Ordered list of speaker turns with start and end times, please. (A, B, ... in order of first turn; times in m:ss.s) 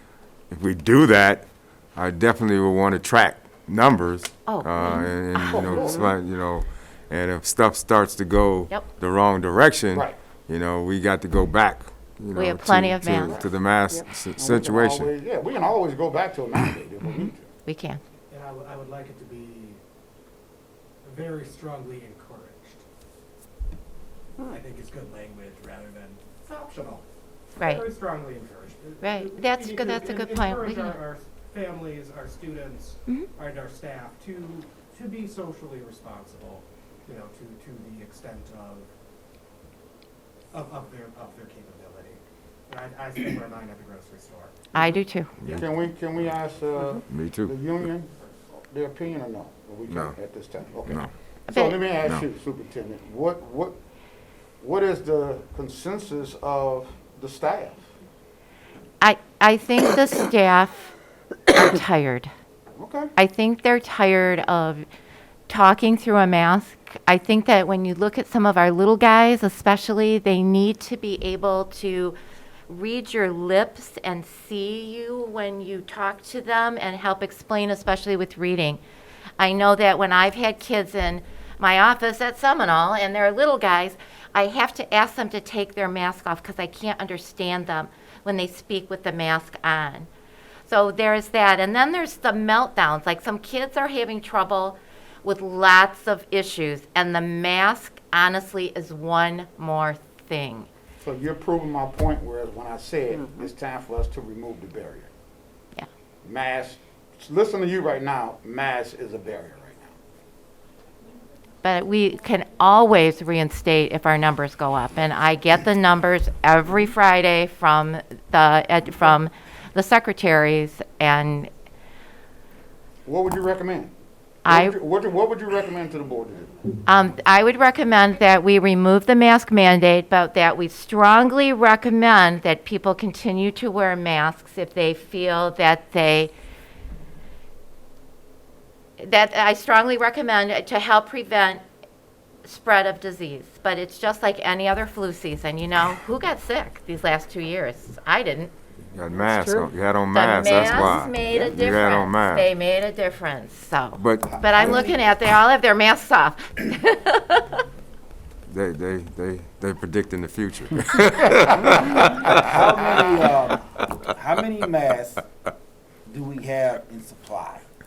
0:00.5-0:15.1 A
0:04.4-0:06.0 B
0:05.5-0:06.1 C
0:12.3-0:13.4 B
0:13.2-0:13.5 C
0:14.3-0:17.5 C
0:17.0-0:18.0 B
0:18.3-0:19.8 D
0:21.0-0:22.8 D
0:24.5-0:27.0 D
0:27.6-0:27.8 B
0:27.6-0:38.9 D
0:29.0-0:31.0 B
0:40.5-0:44.6 D
0:44.7-0:45.3 B
0:45.4-0:45.6 A
0:45.5-0:53.7 C
0:47.1-0:47.6 A
0:49.9-0:50.2 A
0:50.9-0:51.1 A
0:51.5-0:51.8 B
0:54.6-0:57.8 C
0:59.0-1:00.9 B
1:01.5-1:02.3 B
1:02.8-1:03.1 C
1:03.2-1:04.8 B
1:05.5-1:12.2 B
1:12.7-1:18.8 B
1:19.4-1:30.1 B
1:30.7-1:40.7 B
1:41.0-1:45.1 C
1:46.2-1:50.0 C
1:51.6-2:01.5 B
2:03.0-2:03.9 C
2:04.4-2:04.7 B
2:04.5-2:06.5 C
2:06.8-2:16.3 B
2:19.0-2:21.6 B
2:22.4-2:28.5 B
2:28.9-2:32.5 A
2:30.1-2:37.6 B
2:34.0-2:34.8 A
2:34.2-2:35.0 E
2:38.5-2:42.6 A
2:41.9-2:45.2 E
2:42.8-2:43.2 C
2:46.0-2:47.6 E